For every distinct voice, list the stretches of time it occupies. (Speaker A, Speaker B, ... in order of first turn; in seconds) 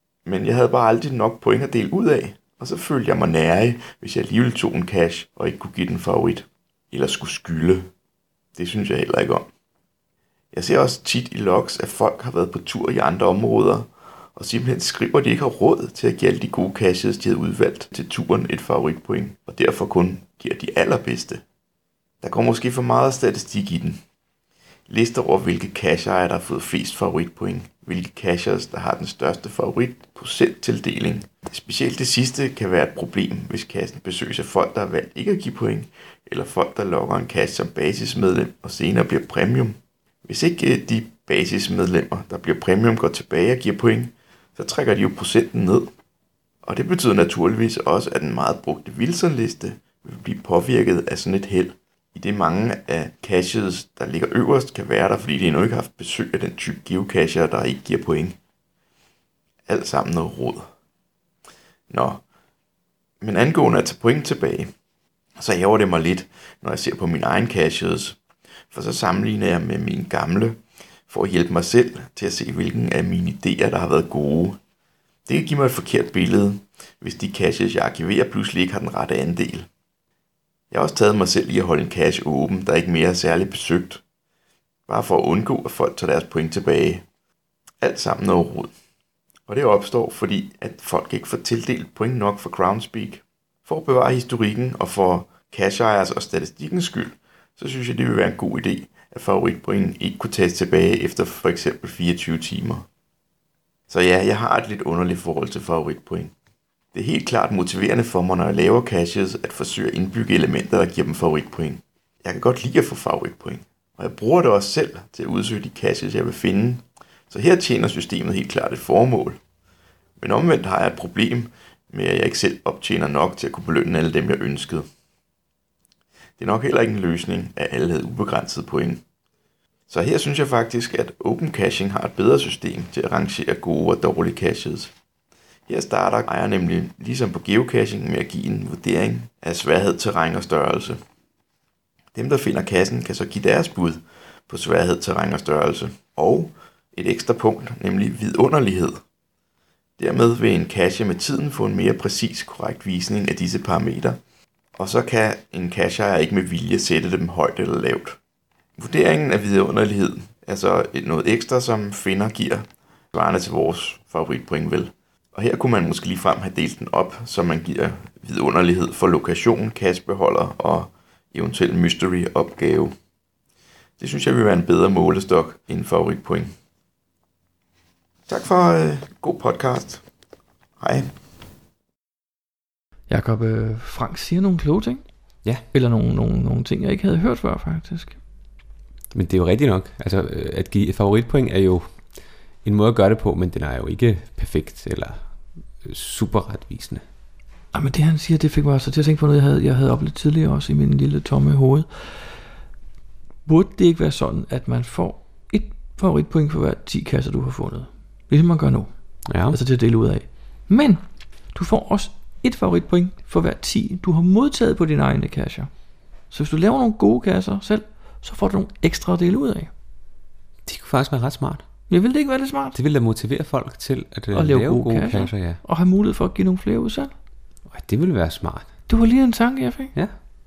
Speaker A: 0.3-7.9, 8.6-9.5, 10.5-21.4, 22.2-24.0, 24.9-45.9, 46.6-58.4, 59.7-60.7, 61.9-62.2, 63.2-64.7, 65.4-68.2, 68.7-74.6, 75.3-79.7, 80.7-84.0, 84.9-87.0, 87.8-88.7, 89.5-102.8, 103.9-106.3, 106.9-119.4, 120.2-124.9, 126.4-129.0, 129.9-134.9, 135.7-141.0, 142.2-149.0, 150.0-154.2, 154.8-158.2, 158.8-172.9, 174.0-176.5, 178.3-180.0, 180.8-181.1
Speaker B: 183.1-185.1, 185.7-188.2, 197.7-202.4, 203.4-219.7, 221.9-222.8, 224.3-227.1, 228.9-230.0
Speaker C: 189.1-197.1, 209.3-209.6, 220.7-221.7, 222.7-225.6, 227.7-228.8